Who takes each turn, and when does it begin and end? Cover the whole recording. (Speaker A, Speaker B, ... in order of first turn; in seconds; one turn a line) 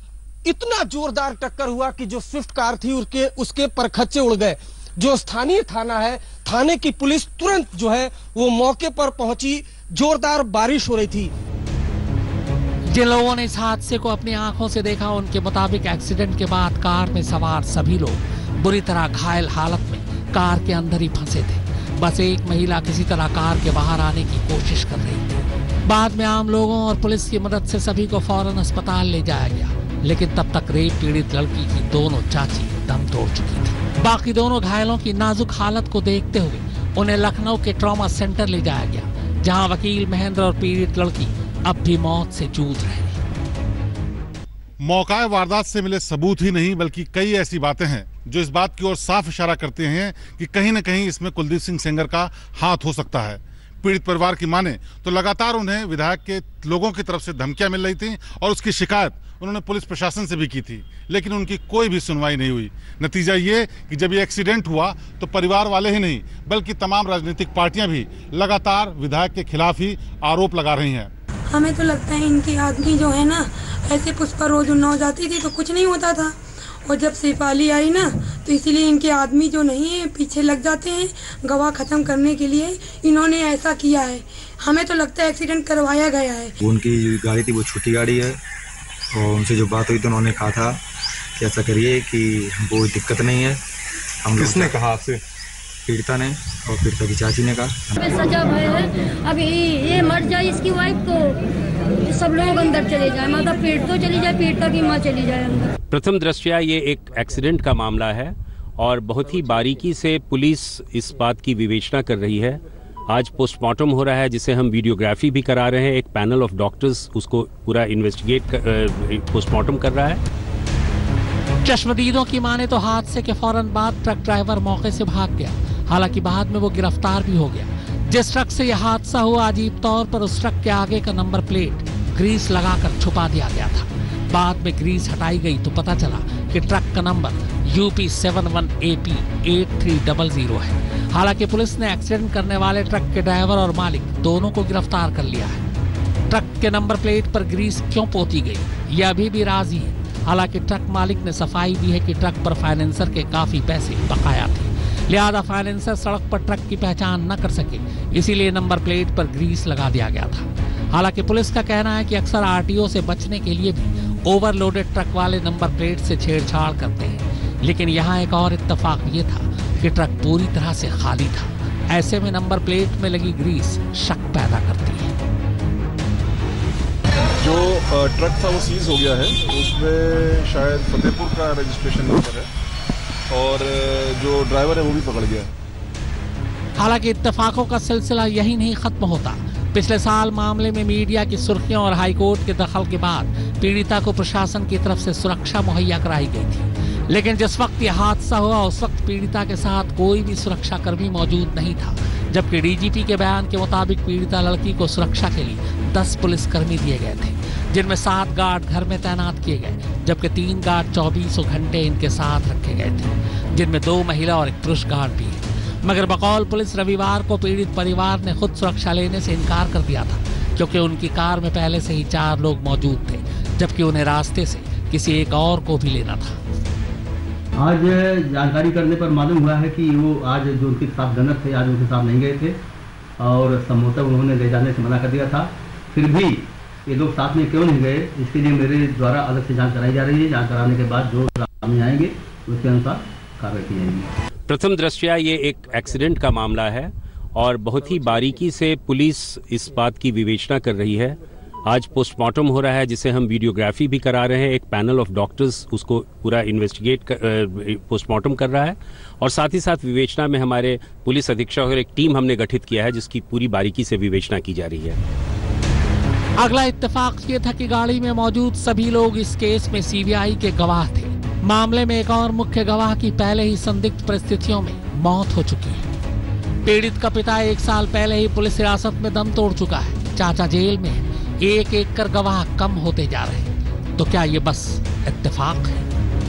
Speaker A: 0.4-11.3
Speaker B: 12.9-43.2
Speaker C: 44.8-71.1
Speaker D: 71.5-86.5
Speaker E: 86.6-88.4
Speaker E: 89.1-90.8
Speaker E: 91.4-93.6
Speaker E: 94.2-95.2
Speaker F: 94.4-94.7
Speaker E: 95.8-98.1
Speaker G: 98.0-101.3
Speaker G: 102.0-105.7
Speaker H: 105.9-120.2
Speaker B: 121.6-145.6
Speaker B: 146.3-175.1
Speaker F: 177.4-182.5
Speaker F: 183.3-185.5
Speaker B: 186.8-226.4
Speaker I: 227.6-232.6
Speaker I: 233.2-244.1
Speaker H: 244.5-265.0
Speaker B: 266.4-275.9
Speaker B: 276.6-285.9